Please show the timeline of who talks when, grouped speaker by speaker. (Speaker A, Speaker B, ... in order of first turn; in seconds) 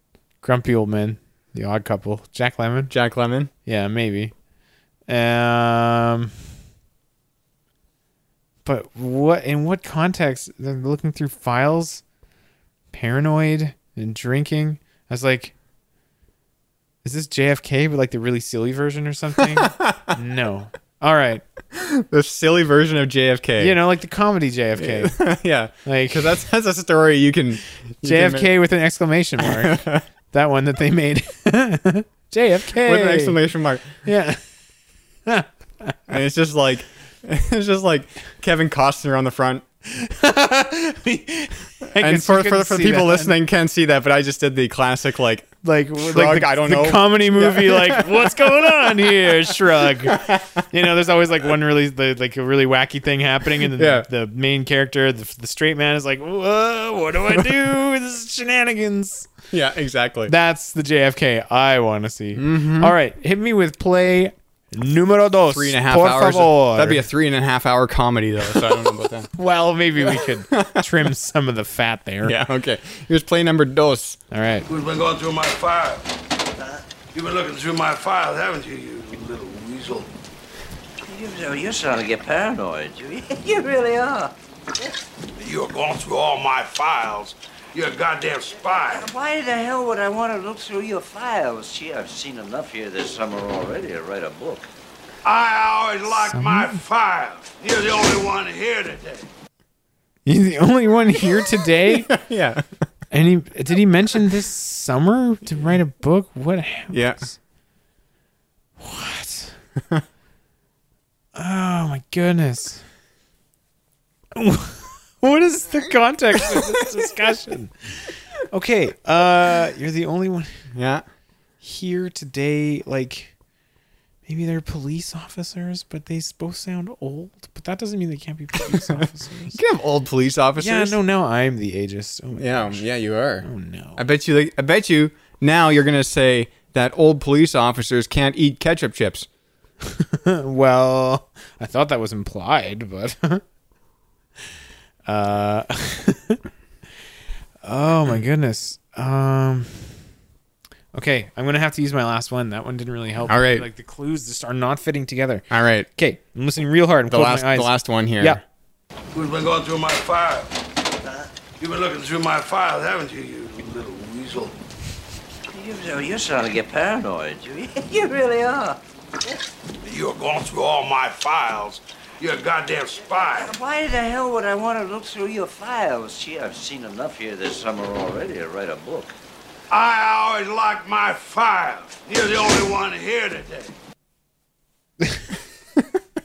Speaker A: 0.4-2.9, 3.6-4.3, 5.1-6.3, 8.6-12.0, 12.9-15.5, 17.0-21.4, 23.6-25.2, 25.8-26.4, 28.0-29.8, 30.3-33.4, 34.0-34.4, 35.2-36.1, 39.9-43.3, 45.6-59.3, 60.3-67.0, 68.5-72.4, 74.3-74.6, 96.1-96.8, 100.2-102.1, 103.1-107.3, 108.8-109.5, 111.3-112.8, 114.3-120.5, 121.6-123.3, 124.2-129.6, 130.6-132.8, 133.4-134.0, 139.8-143.4, 145.0-146.4, 147.6-149.9, 150.9-158.4
Speaker B: 2.9-3.5, 19.5-20.1, 21.7-23.8, 24.8-28.5, 29.4-30.0, 32.8-34.0, 36.1-39.6, 42.0-50.6, 53.7-54.0, 59.5-60.3, 62.4-62.9, 65.5-69.3, 70.1-70.9, 72.2-74.2, 102.0-102.7, 106.9-107.2, 120.7-121.0, 128.7-131.0, 132.3-139.3, 153.2-153.7, 155.5-155.9, 157.1-158.4
Speaker C: 74.7-76.0, 77.1-80.1, 85.4-89.1, 95.2-99.3, 159.1-160.5, 161.6-164.6, 169.8-173.5, 179.7-183.7
Speaker D: 81.0-84.9, 88.9-94.7, 165.5-169.3, 173.3-179.1